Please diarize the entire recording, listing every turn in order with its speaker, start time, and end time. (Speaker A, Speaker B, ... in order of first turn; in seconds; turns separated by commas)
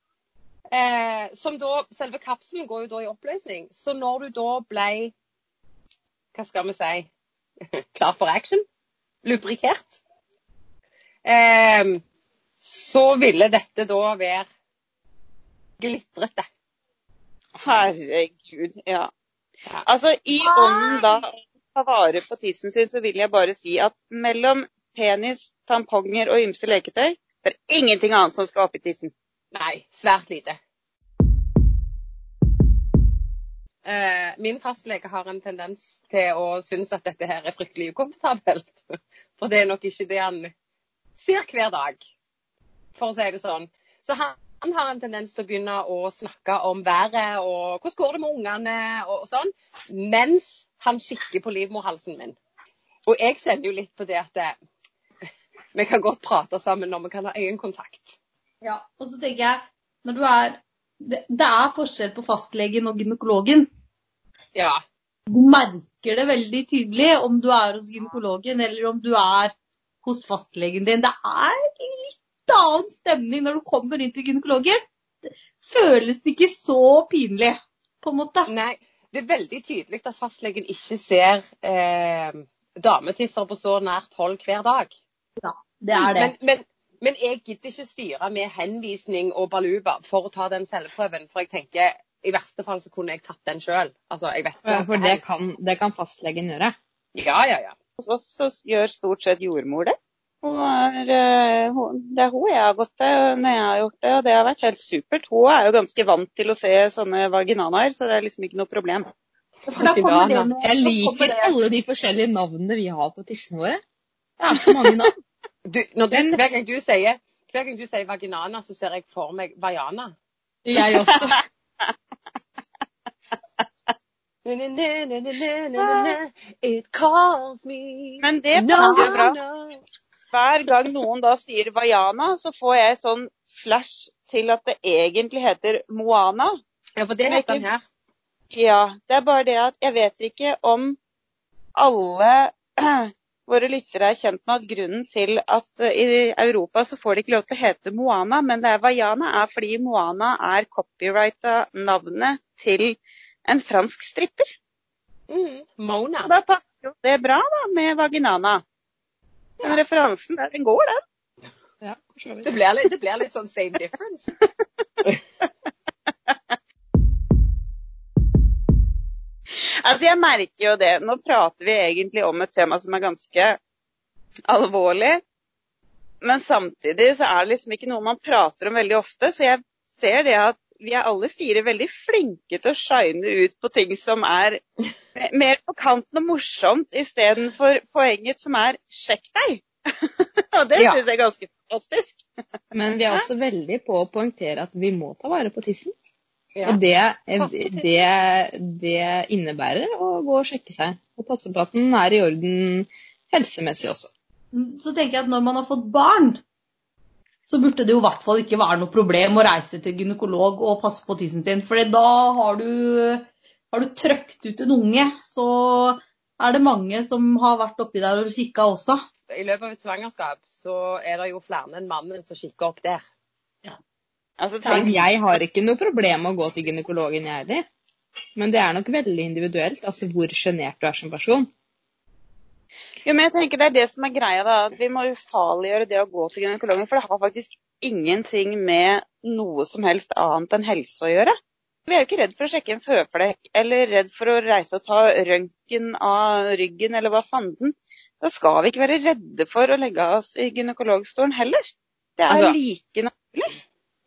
Speaker A: 0.7-5.1, Speaker A: 6.3-7.1, Speaker A: 7.7-8.6, Speaker A: 9.2-10.0, Speaker A: 11.2-12.0, Speaker A: 12.6-14.5, Speaker A: 15.8-16.5, Speaker B: 17.6-17.9, Speaker C: 17.6-19.1, Speaker C: 19.9-29.1, Speaker D: 20.4-21.2, Speaker A: 29.5-30.6, Speaker A: 33.9-40.5, Speaker A: 41.1-42.0, Speaker A: 43.0-52.4, Speaker A: 53.1-54.6, Speaker A: 55.7-58.1, Speaker D: 58.6-63.7, Speaker A: 64.5-64.8, Speaker D: 65.3-69.5, Speaker D: 70.0-74.8, Speaker D: 75.6-78.5, Speaker A: 78.5-84.9, Speaker D: 85.4-86.3, Speaker A: 85.9-95.2, Speaker B: 94.6-96.8, Speaker A: 97.1-97.8, Speaker C: 98.0-109.1, Speaker D: 109.7-111.5, Speaker A: 109.7-110.5, Speaker B: 110.6-113.8, Speaker B: 114.4-115.1, Speaker A: 115.7-120.1, Speaker B: 116.1-116.5, Speaker B: 120.6-121.4, Speaker C: 120.9-121.9, Speaker A: 124.5-129.8, Speaker C: 125.8-126.1, Speaker C: 128.2-129.4, Speaker D: 128.8-129.2, Speaker C: 130.3-136.5, Speaker A: 137.0-137.8, Speaker C: 137.2-137.7, Speaker C: 138.5-141.0, Speaker C: 141.8-154.5, Speaker A: 155.3-156.3, Speaker C: 156.2-158.6, Speaker C: 159.6-161.0, Speaker B: 161.8-162.5, Speaker A: 162.4-164.3, Speaker C: 169.6-173.6, Speaker C: 174.5-175.2, Speaker C: 176.2-184.6, Speaker C: 185.2-192.2, Speaker A: 190.8-191.0, Speaker B: 192.7-195.9, Speaker A: 196.6-196.8, Speaker B: 196.6-204.1, Speaker A: 197.4-197.9, Speaker D: 204.5-206.4, Speaker D: 207.5-219.0, Speaker A: 219.3-223.1, Speaker C: 224.4-225.1, Speaker B: 224.7-227.6, Speaker B: 228.4-231.5, Speaker C: 233.1-241.3, Speaker C: 241.9-253.5, Speaker A: 252.3-252.6